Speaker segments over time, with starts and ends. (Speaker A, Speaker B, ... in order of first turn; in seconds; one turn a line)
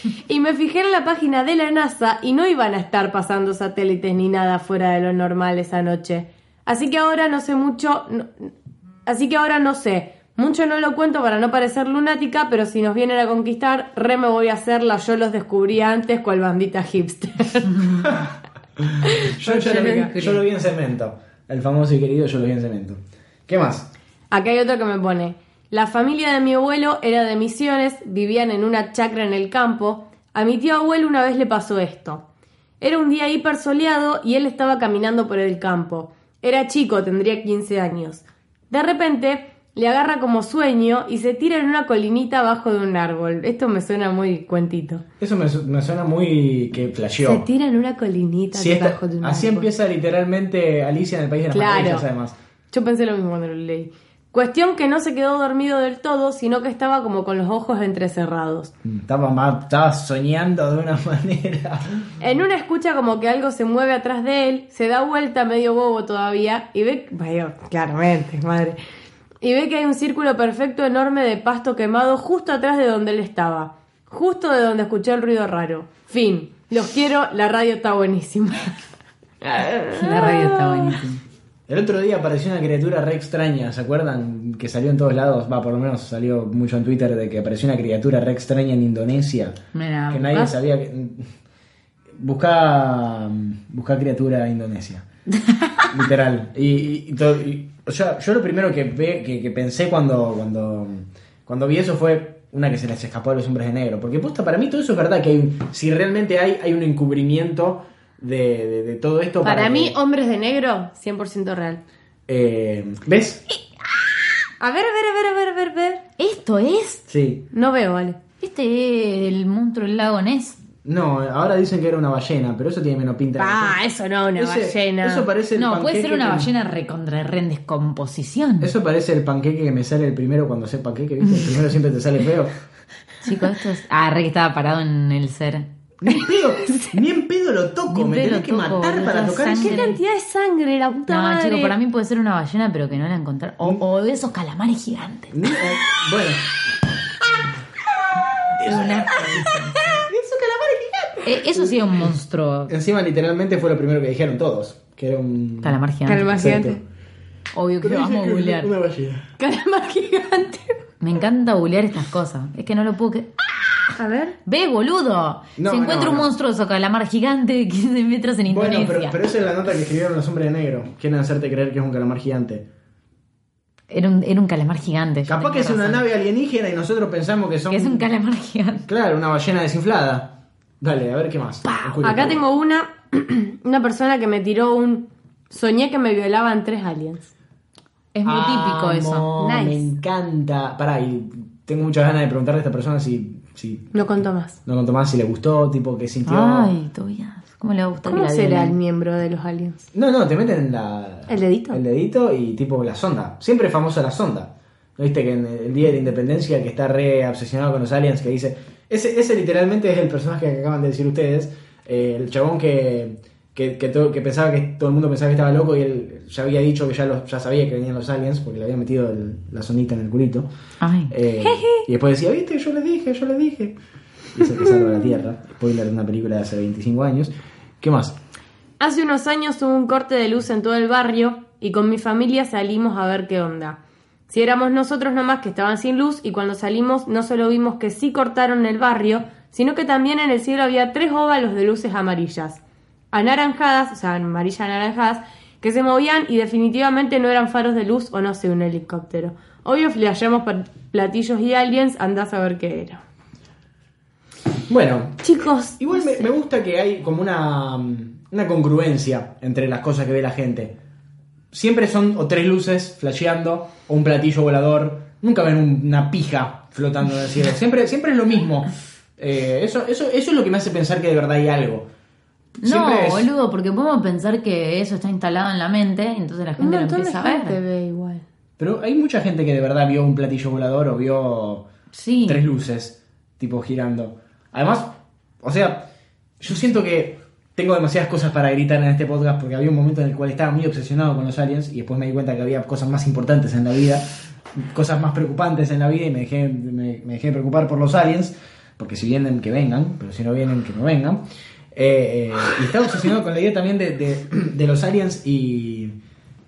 Speaker A: 0.3-8.5
Speaker A: 9.1-18.1
Speaker B: 18.0-23.9
Speaker A: 19.0-20.2
Speaker C: 19.9-20.4
Speaker A: 24.3-32.2
Speaker A: 32.8-45.0
Speaker B: 45.2-47.5
Speaker A: 47.2-49.7
Speaker B: 48.5-52.4
Speaker A: 51.5-52.0
Speaker A: 52.7-58.7
Speaker B: 58.8-62.1
Speaker A: 62.2-68.8
Speaker A: 69.4-78.8
Speaker A: 79.4-81.0
Speaker C: 79.9-81.2
Speaker B: 81.7-89.6
Speaker C: 89.7-90.5
Speaker B: 90.1-91.3
Speaker B: 92.2-95.0
Speaker B: 95.9-110.0
Speaker A: 109.4-111.8
Speaker B: 112.3-113.4
Speaker A: 114.6-116.0
Speaker C: 116.2-117.0
Speaker B: 117.1-117.5
Speaker A: 117.5-118.2
Speaker C: 118.4-120.6
Speaker B: 120.8-123.8
Speaker A: 123.4-125.3
Speaker B: 124.4-126.5
Speaker C: 125.6-128.7
Speaker B: 128.6-132.5
Speaker C: 133.2-135.7
Speaker B: 136.0-139.9
Speaker C: 137.9-140.0
Speaker A: 139.5-141.8
Speaker C: 141.1-145.4
Speaker B: 145.3-146.5
Speaker B: 148.6-151.8
Speaker C: 148.6-149.8
Speaker A: 149.4-150.1
Speaker C: 151.2-152.7
Speaker B: 152.7-156.8
Speaker C: 155.6-156.3
Speaker A: 156.1-156.8
Speaker C: 157.5-158.7
Speaker B: 157.8-159.3
Speaker A: 159.4-160.8
Speaker C: 161.0-163.4
Speaker A: 163.9-164.4
Speaker C: 164.5-169.2
Speaker B: 165.6-166.3
Speaker B: 168.5-172.7
Speaker C: 173.9-176.1
Speaker B: 175.3-178.1
Speaker C: 177.7-178.9
Speaker B: 178.9-182.4
Speaker A: 182.0-187.3
Speaker C: 188.2-189.3
Speaker B: 188.2-193.9
Speaker A: 189.4-189.9
Speaker A: 193.9-194.6
Speaker B: 194.7-196.7
Speaker C: 196.2-198.8
Speaker A: 198.1-199.9
Speaker B: 199.9-220.5
Speaker A: 201.3-201.8
Speaker C: 220.8-221.1
Speaker B: 221.1-223.8
Speaker A: 221.4-221.8
Speaker B: 224.3-228.2
Speaker A: 228.8-253.0
Speaker B: 254.7-255.3
Speaker A: 255.2-256.3
Speaker B: 255.8-260.8
Speaker B: 261.5-271.9
Speaker C: 272.6-277.6
Speaker B: 272.6-273.3
Speaker A: 276.6-278.2
Speaker B: 278.6-281.7
Speaker C: 281.9-282.4
Speaker B: 282.3-285.9
Speaker B: 286.4-301.2
Speaker B: 301.7-306.0